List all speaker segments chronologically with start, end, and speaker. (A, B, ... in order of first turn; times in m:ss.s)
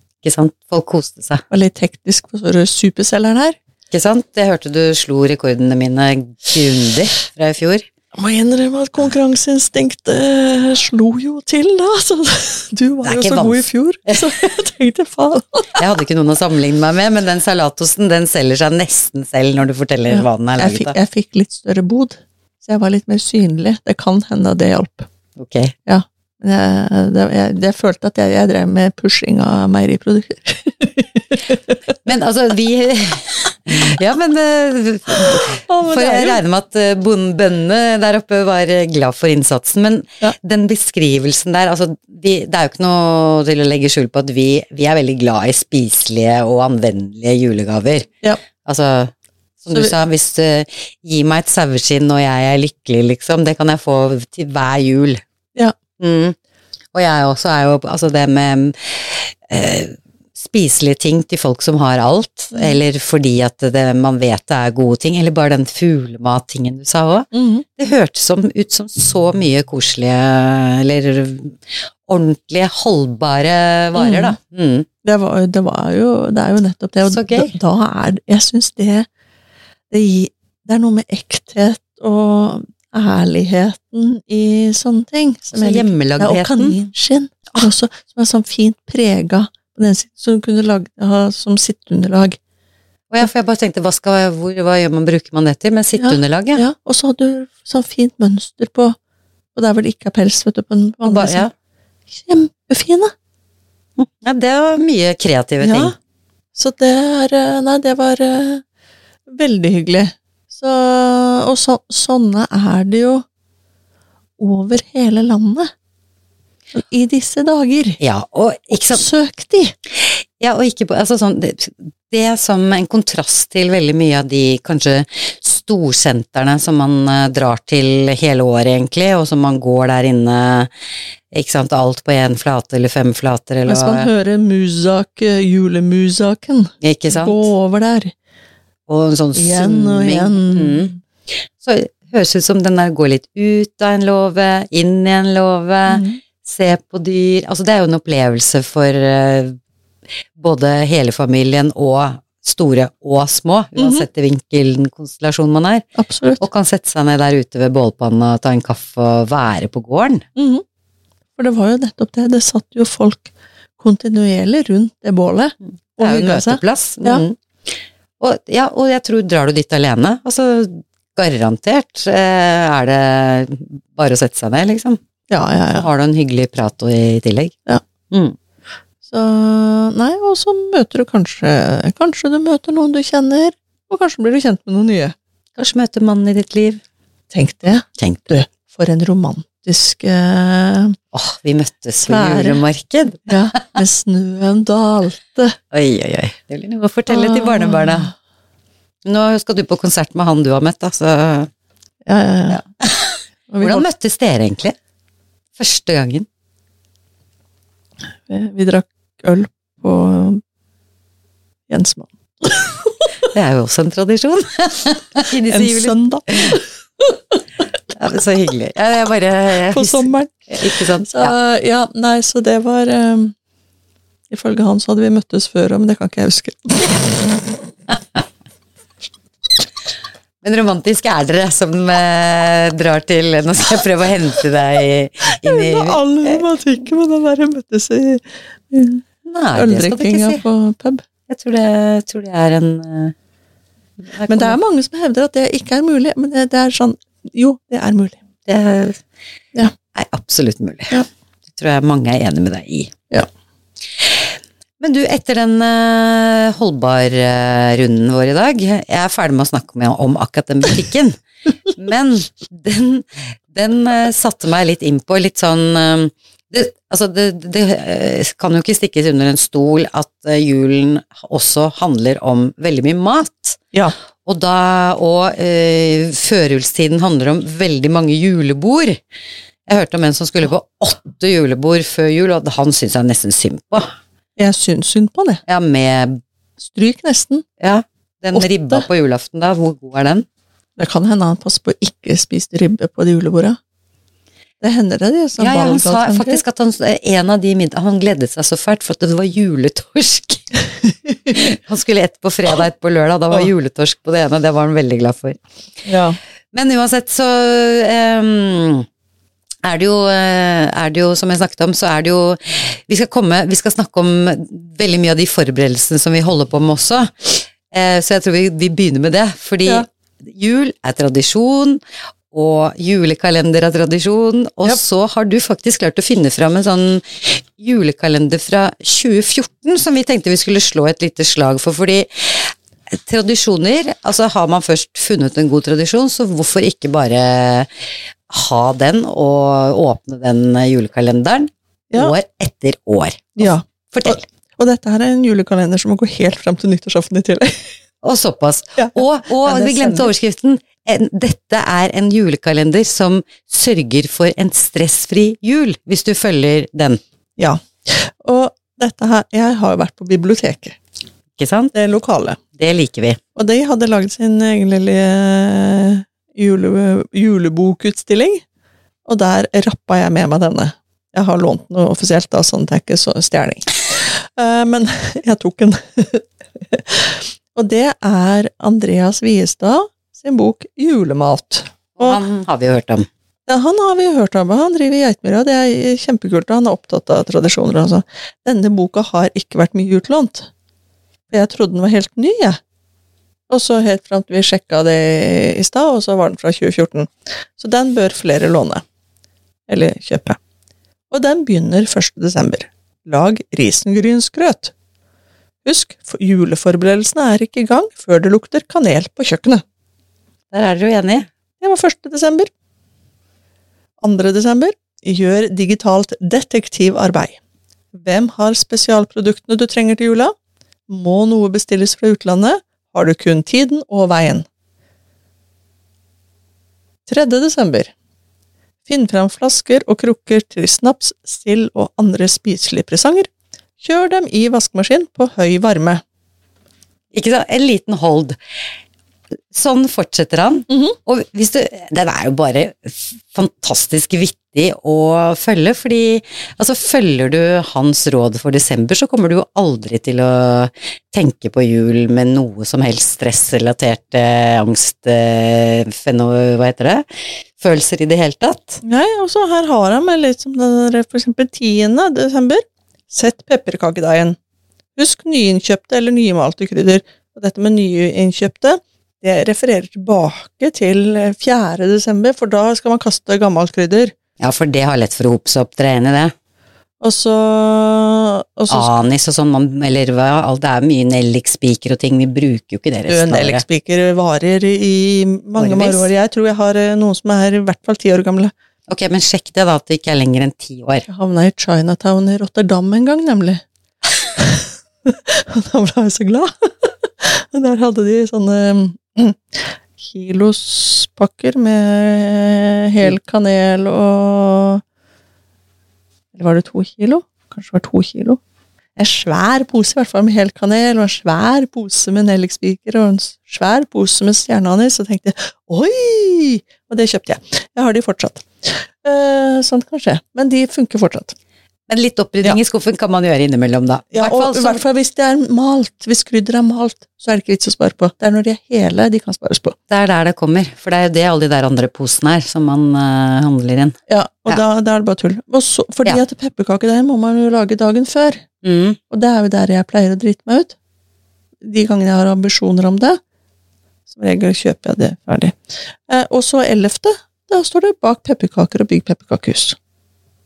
0:00.2-0:01.4 A
0:01.5-0:03.6 B
0:03.9-0:07.9 A
0:08.1-0:15.8 B
0:13.0-0:14.2 A
0:15.8-0:21.0 A
0:20.1-0:25.1 B
0:25.4-0:25.7 A
0:25.8-0:31.8 B
0:32.0-0:48.1 A
0:35.7-0:36.4 B
0:48.6-0:55.2 A
0:56.0-0:56.4 A
0:56.9-1:14.9 A
1:02.5-1:02.8 B
1:07.3-1:07.6 B
1:14.0-1:14.4 B
1:15.0-1:19.1 B
1:17.1-1:17.5 A
1:19.9-1:32.4 B
1:25.5-1:26.8 A
1:33.1-1:36.6 A
1:36.0-1:39.0 B
1:39.5-1:41.4 B
1:41.0-1:41.5 A
1:42.1-1:43.1 B
1:44.0-1:45.9 A
1:45.6-1:45.9 B
1:46.5-1:48.6 B
1:49.3-1:53.2 B
1:54.4-1:55.7 B
1:56.7-1:58.0 B
1:58.0-1:59.0 A
1:58.7-1:59.7 B
2:00.0-2:10.7 A
2:11.3-2:14.1 A
2:13.6-2:18.1 B
2:16.8-2:17.5 A
2:18.9-2:20.9 A
2:19.3-2:20.9 B
2:21.6-2:29.6 A
2:25.9-2:26.2 B
2:30.4-2:35.8 A
2:33.8-2:34.0 B
2:36.0-2:36.4 B
2:36.4-2:40.2 A
2:40.4-2:40.6 B
2:41.4-2:47.2 B
2:46.0-2:47.4 A
2:48.2-2:55.0 A
2:55.3-2:55.9 B
2:55.7-2:57.5 A
2:58.1-2:58.4 A
2:59.0-3:05.1 B
3:05.6-3:06.8 A
3:07.3-3:10.9 B
3:08.0-3:08.2 A
3:11.1-3:13.8 A
3:12.0-3:12.6 B
3:13.3-3:15.5 B
3:15.7-3:18.1 A
3:17.1-3:18.1 B
3:19.0-3:21.5 A
3:22.0-3:22.6 B
3:22.5-3:24.7 A
3:23.5-3:23.8 B
3:25.6-3:26.3 A
3:28.3-3:30.4 B
3:31.7-3:32.9 B
3:33.3-3:36.6 A
3:35.5-3:37.4 B
3:37.9-3:41.3 A
3:39.7-3:43.3 B
3:44.3-3:47.5 B
3:50.4-3:56.4 A
3:55.4-3:59.0 B
3:59.2-4:00.4 A
3:59.5-4:01.0 B
4:01.3-4:03.1 A
4:04.0-4:04.6 A
4:04.3-4:08.2 B
4:08.4-4:09.0 A
4:09.9-4:11.0 A
4:11.5-4:12.9 A
4:14.8-4:33.6 A
4:34.2-4:39.0 A
4:39.7-4:43.9 A
4:44.4-4:45.4 B
4:45.4-4:46.2 A
4:46.6-4:47.4 B
4:47.6-4:50.2 A
4:48.3-4:48.8 B
4:50.8-4:53.6 B
4:54.6-4:56.4 B
4:55.4-5:00.4 A
5:01.3-5:05.4 A
5:05.8-5:06.2 B
5:06.5-5:08.8 A
5:09.6-5:21.8 A
5:22.3-5:32.5 A
5:33.0-5:37.7 A
5:38.3-5:44.2 A
5:43.4-5:47.6 B
5:48.0-5:57.0 A
5:48.8-5:50.1 B
5:57.4-6:00.8 B
6:01.4-6:01.7 A
6:01.7-6:02.4 B
6:02.6-6:03.2 A
6:03.4-6:08.4 B
6:09.0-6:22.2 B
6:22.0-6:23.1 A
6:23.5-6:30.5 B
6:31.3-6:32.6 B
6:33.5-6:38.8 B
6:39.7-6:40.4 B
6:41.1-6:44.7 B
6:45.6-6:49.6 B
6:50.5-6:51.3 A
6:51.6-6:52.5 B
6:54.0-6:57.4 B
6:57.9-7:00.3 B
7:00.9-7:04.4 B
7:07.1-7:07.9 B
7:08.8-7:13.3 B
7:13.8-7:16.0 B
7:17.1-7:18.4 A
7:19.5-7:37.0 A
7:20.7-7:21.0 B
7:37.6-7:38.8 A
7:38.8-7:44.4 B
7:45.0-7:54.1 B
7:54.4-7:56.3 A
7:57.0-7:58.9 B
7:58.7-8:03.6 A
8:03.1-8:08.5 B
8:05.6-8:06.1 A
8:08.9-8:11.0 A
8:11.1-8:13.6 B
8:14.3-8:24.8 B
8:26.3-8:28.4 B
8:29.0-8:41.3 B
8:41.9-8:44.8 A
8:44.1-8:49.7 B
8:49.9-8:53.9 A
8:54.1-8:58.4 B
8:58.6-8:59.0 A
8:59.1-9:00.7 B
9:01.6-9:03.2 B
9:04.1-9:09.8 B